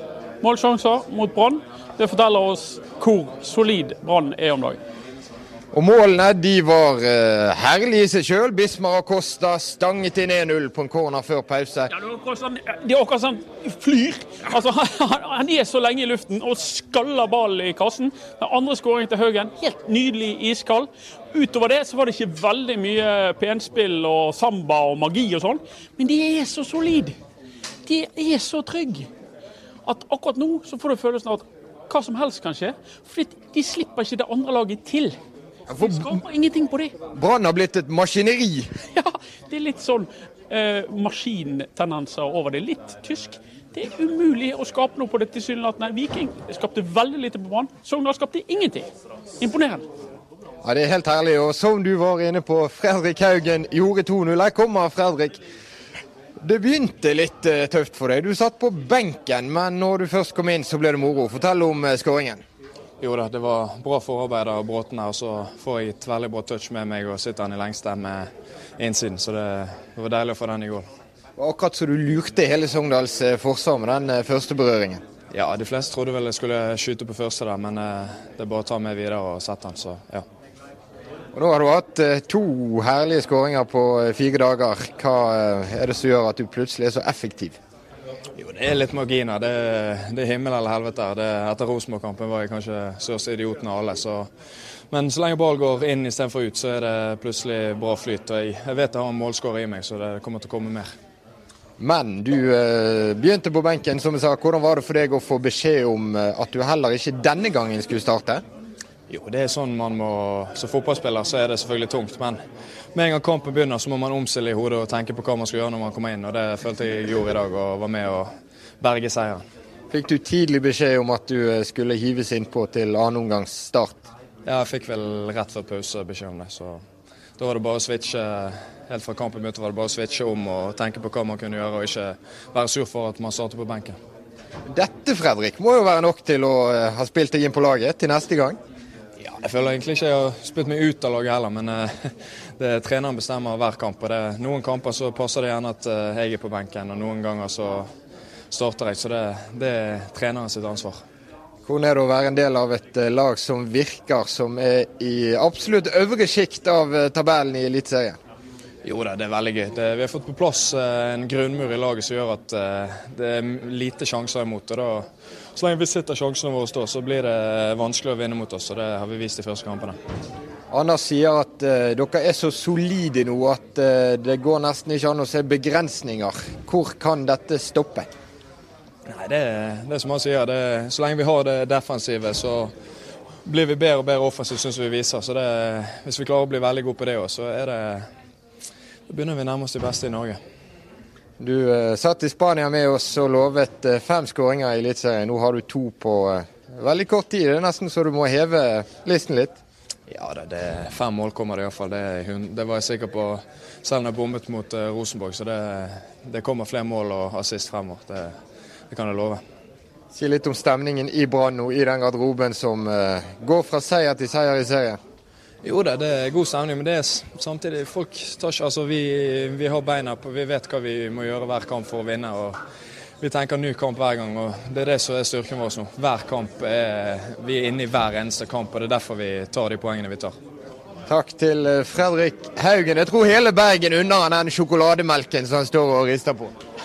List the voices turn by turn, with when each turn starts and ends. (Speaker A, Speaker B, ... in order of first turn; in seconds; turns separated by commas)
Speaker A: 0.4-4.8, Speaker B: 5.7-11.9, Speaker A: 11.9-27.2, Speaker A: 27.8-29.1, Speaker A: 29.8-35.2, Speaker B: 35.7-36.2, Speaker A: 35.8-36.9, Speaker B: 37.1-38.7, Speaker A: 38.9-48.9, Speaker A: 49.4-49.8, Speaker B: 50.6-55.4, Speaker B: 56.4-62.4, Speaker C: 63.0-70.9, Speaker B: 71.4-75.0, Speaker C: 75.3-80.2, Speaker B: 81.3-87.6, Speaker C: 88.4-94.3, Speaker C: 94.9-100.9, Speaker B: 101.8-108.4, Speaker C: 109.1-112.4, Speaker C: 112.9-118.3, Speaker C: 118.8-119.4, Speaker B: 119.9-124.1, Speaker C: 124.5-126.8, Speaker C: 127.4-134.0, Speaker B: 134.7-138.6, Speaker C: 139.2-141.9, Speaker C: 142.6-147.9, Speaker C: 148.5-151.0, Speaker B: 151.6-158.2, Speaker C: 158.8-169.9, Speaker B: 170.7-178.1, Speaker C: 179.1-182.7, Speaker C: 183.4-188.0, Speaker C: 189.1-190.4, Speaker B: 191.4-199.6, Speaker C: 200.1-208.3, Speaker C: 208.9-209.4, Speaker B: 210.1-215.0, Speaker C: 215.6-222.6, Speaker C: 223.2-230.3, Speaker B: 231.1-236.5